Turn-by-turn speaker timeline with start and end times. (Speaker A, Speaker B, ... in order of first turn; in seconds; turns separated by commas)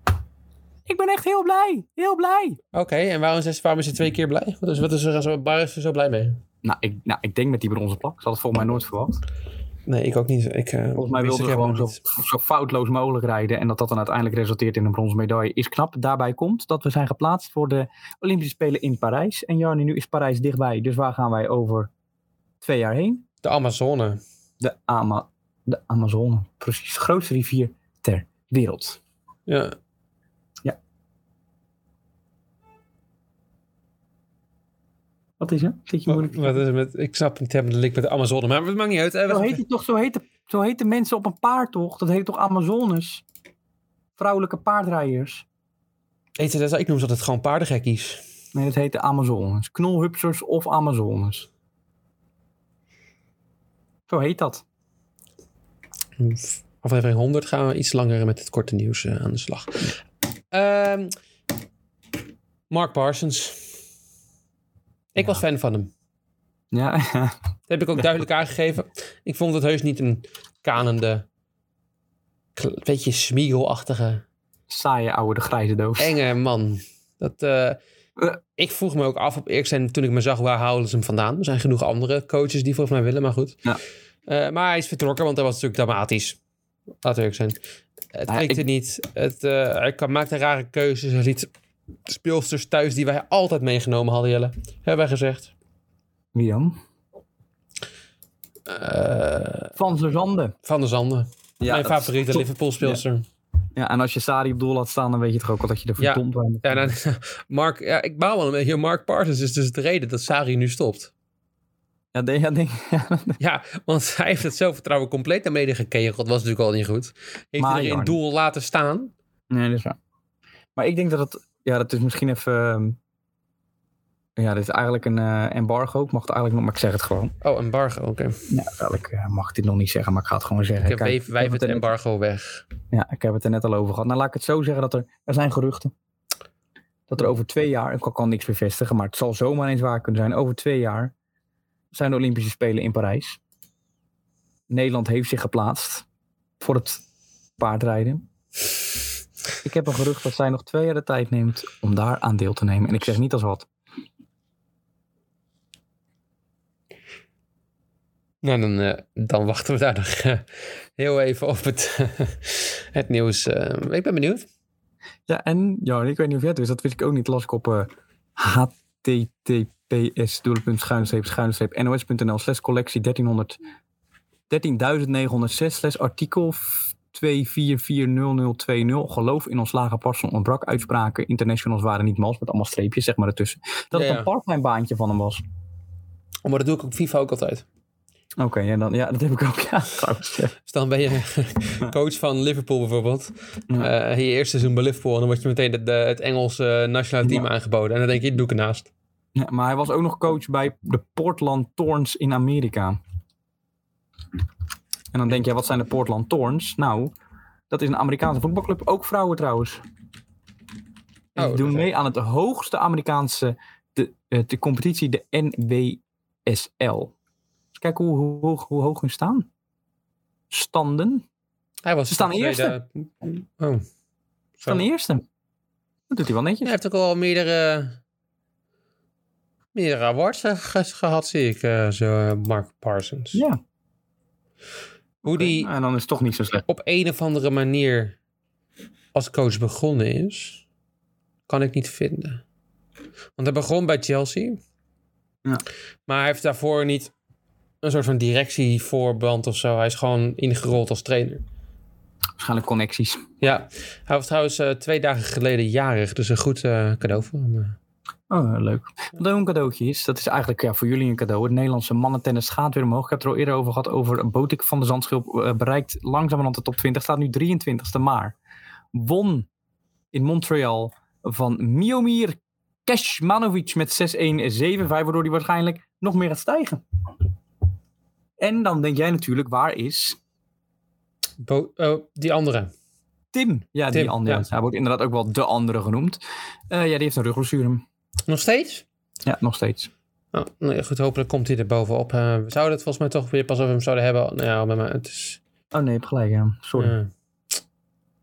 Speaker A: 0.9-2.6, Speaker B: 2.7-6.4, Speaker A: 6.6-9.2, Speaker B: 9.9-12.0, Speaker A: 10.9-21.9, Speaker A: 22.6-23.2, Speaker B: 23.4-24.2, Speaker A: 24.6-29.0, Speaker B: 29.5-29.8, Speaker A: 35.4-36.6, Speaker B: 36.1-39.6, Speaker A: 39.3-43.2, Speaker A: 44.2-45.5, Speaker B: 46.4-48.2, Speaker A: 48.5-51.5, Speaker A: 54.1-54.6, Speaker B: 56.2-59.9, Speaker B: 60.5-61.1, Speaker B: 62.7-63.6, Speaker B: 65.1-65.9, Speaker A: 66.7-67.3, Speaker B: 67.7-71.3, Speaker B: 72.6-74.2, Speaker A: 74.7-76.1, Speaker B: 76.0-77.8, Speaker B: 78.6-83.6, Speaker B: 84.3-86.4, Speaker B: 87.0-87.6, Speaker B: 88.1-91.5, Speaker A: 88.3-88.6, Speaker B: 92.1-95.5, Speaker A: 96.3-96.8, Speaker B: 98.7-99.8, Speaker A: 99.8-100.5, Speaker B: 100.7-103.2, Speaker A: 101.6-103.0, Speaker A: 103.8-107.0, Speaker B: 106.0-111.1, Speaker A: 112.1-113.4, Speaker B: 113.4-119.1, Speaker A: 117.6-118.2, Speaker A: 119.5-120.0, Speaker A: 120.8-123.0, Speaker A: 124.4-127.3, Speaker B: 127.4-128.4, Speaker A: 128.5-131.9, Speaker B: 130.8-132.7, Speaker A: 132.9-135.9, Speaker A: 137.1-141.1, Speaker A: 141.9-143.4, Speaker A: 144.7-146.1, Speaker A: 146.6-147.0, Speaker A: 147.6-148.2, Speaker A: 149.6-153.7, Speaker B: 158.4-160.4, Speaker B: 161.0-164.5, Speaker A: 165.3-173.6, Speaker A: 174.5-185.4, Speaker B: 183.9-184.3, Speaker B: 186.4-187.7, Speaker A: 188.4-190.6, Speaker B: 190.7-198.9, Speaker A: 199.3-203.0, Speaker A: 205.1-207.1, Speaker A: 207.7-209.8, Speaker B: 211.4-211.9, Speaker A: 211.4-217.1, Speaker A: 217.7-219.5, Speaker A: 220.5-221.2, Speaker B: 221.8-223.8, Speaker A: 222.1-222.8, Speaker B: 224.6-224.9, Speaker A: 224.7-225.2, Speaker A: 226.1-226.7, Speaker B: 226.6-228.0, Speaker B: 229.8-233.4, Speaker A: 233.3-233.6, Speaker A: 235.2-236.6, Speaker B: 235.2-235.7, Speaker B: 236.7-238.2, Speaker B: 239.1-240.6, Speaker B: 241.5-242.4, Speaker B: 243.4-244.6, Speaker B: 246.1-247.1, Speaker B: 247.8-251.4, Speaker A: 252.4-253.3, Speaker B: 253.4-257.8, Speaker A: 258.3-268.4, Speaker A: 268.9-269.5, Speaker A: 270.1-276.8, Speaker A: 278.4-280.2, Speaker B: 281.4-282.7, Speaker A: 283.3-287.8, Speaker B: 283.9-284.5, Speaker B: 288.3-288.9, Speaker A: 289.2-289.9, Speaker B: 290.3-295.4, Speaker A: 295.7-296.9, Speaker B: 296.8-297.1